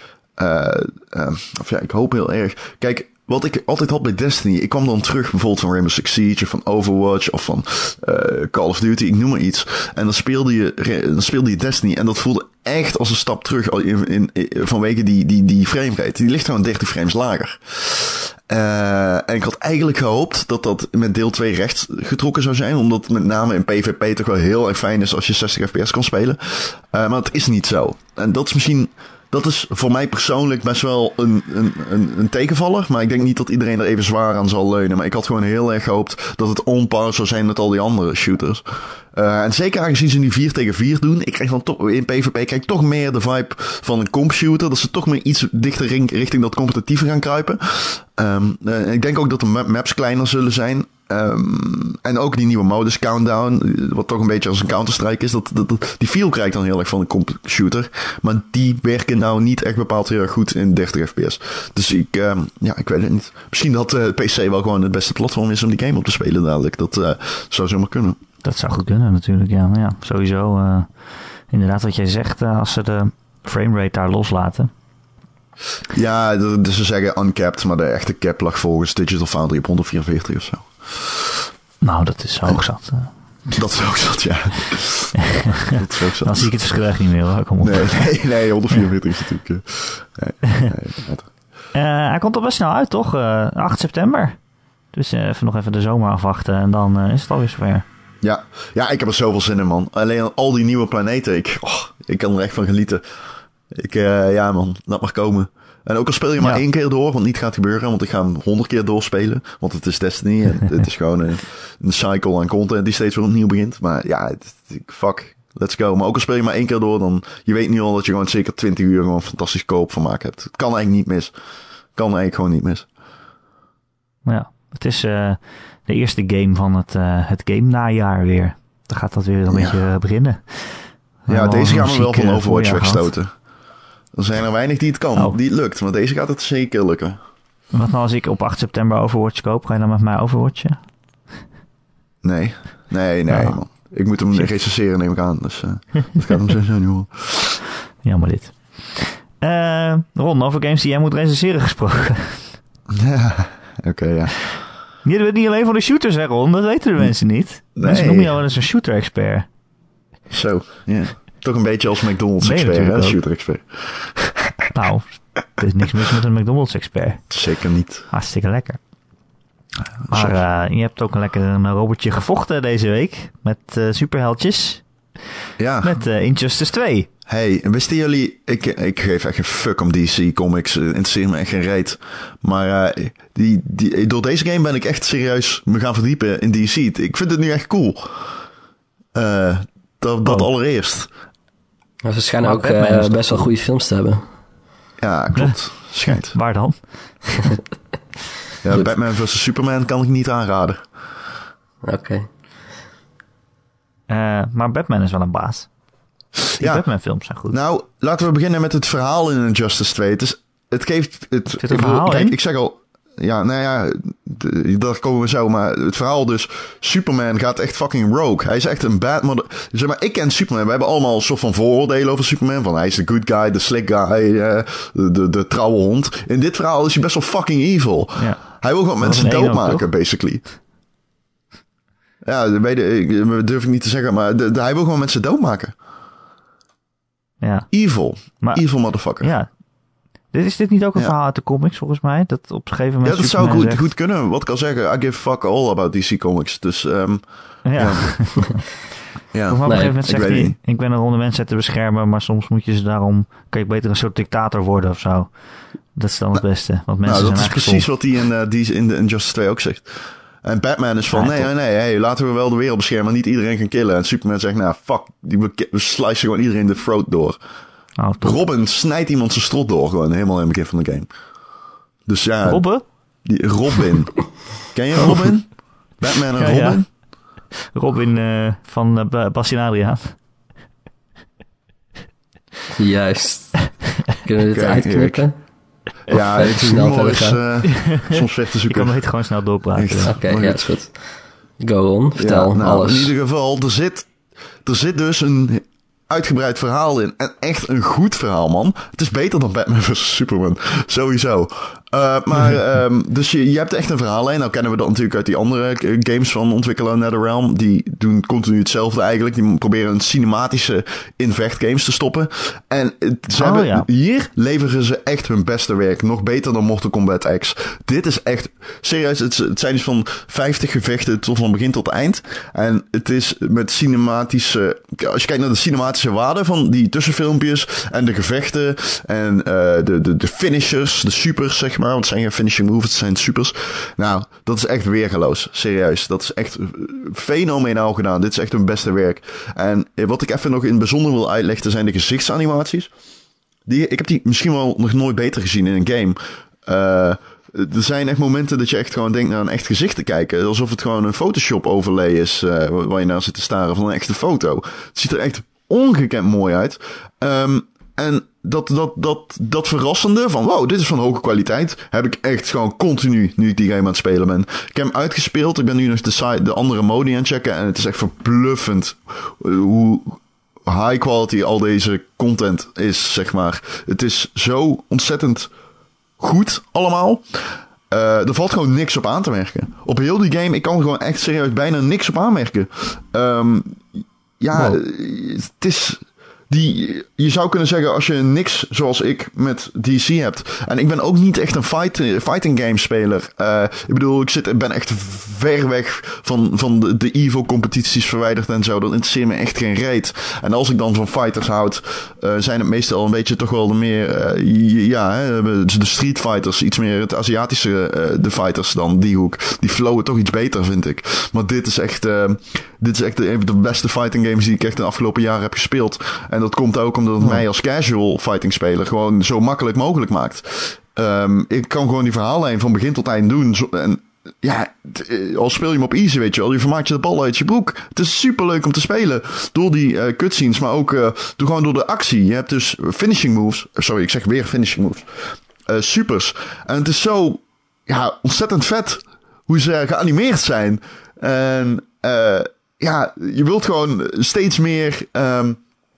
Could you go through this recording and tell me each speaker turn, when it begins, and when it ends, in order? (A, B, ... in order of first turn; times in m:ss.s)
0:00.4-1:08.2 A
1:08.4-1:10.9 B
1:11.5-1:14.7 B
1:15.9-1:21.4 A
1:21.8-1:23.1 B
1:23.5-1:26.6 A
1:26.2-1:28.1 B
1:27.6-1:31.3 A
1:31.7-1:34.4 B
1:34.9-1:37.8 B
1:38.2-1:43.0 A
1:43.7-2:01.3 A
2:02.0-2:02.9 A
2:04.2-2:13.1 B
2:09.5-2:09.8 A
2:11.3-2:13.3 A
2:14.1-2:17.2 A
2:17.7-2:20.8 B
2:22.2-2:27.6 A
2:23.3-2:23.6 B
2:28.0-2:32.5 B
2:32.9-2:34.3 A
2:35.0-2:39.5 B
2:37.8-2:38.3 A
2:40.3-2:44.7 A
2:42.4-2:43.2 B
2:44.7-2:47.3 B
2:47.3-2:48.1 A
2:48.1-2:48.8 B
2:50.1-2:50.4 A
2:50.1-2:54.8 B
2:55.6-2:56.0 A
2:55.8-2:57.1 B
2:57.3-3:08.3 A
3:09.1-3:11.1 A
3:12.0-3:14.2 C
3:12.4-3:13.4 B
3:15.0-3:16.4 A
3:15.4-3:17.6 B
3:18.6-3:20.8 A
3:21.8-3:22.3 C
3:24.1-3:25.7 B
3:26.6-3:26.9 A
3:26.6-3:27.6 B
3:27.5-3:50.4 A
3:31.6-3:32.4 B
3:48.2-3:48.4 B
3:49.0-3:49.8 B
3:52.2-3:55.7 A
3:57.4-3:57.7 B
3:57.7-3:59.3 A
3:58.4-3:58.7 B
3:59.2-3:59.5 B
4:00.3-4:03.9 B
4:03.0-4:08.4 A
4:07.6-4:08.6 B
4:09.3-4:10.6 A
4:09.5-4:15.4 B
4:09.7-4:09.9 C
4:15.9-4:17.9 B
4:17.0-4:19.9 A
4:20.4-4:27.4 A
4:21.1-4:21.5 B
4:28.0-4:28.4 B
4:28.2-4:31.1 A
4:32.0-4:32.7 A
4:32.4-4:32.8 B
4:33.2-4:36.9 A
4:36.4-4:36.8 B
4:37.7-4:40.2 B
4:42.8-4:45.3 C
4:44.5-4:45.2 A
4:46.1-4:47.4 C
4:46.1-4:48.9 A
4:47.7-4:50.2 B
4:49.7-4:50.7 A
4:50.0-4:51.0 C
4:51.6-4:53.1 C
4:52.2-4:54.1 A
4:54.6-5:42.9 A
5:13.4-5:13.8 B
5:43.6-6:15.5 A
6:16.2-7:25.6 A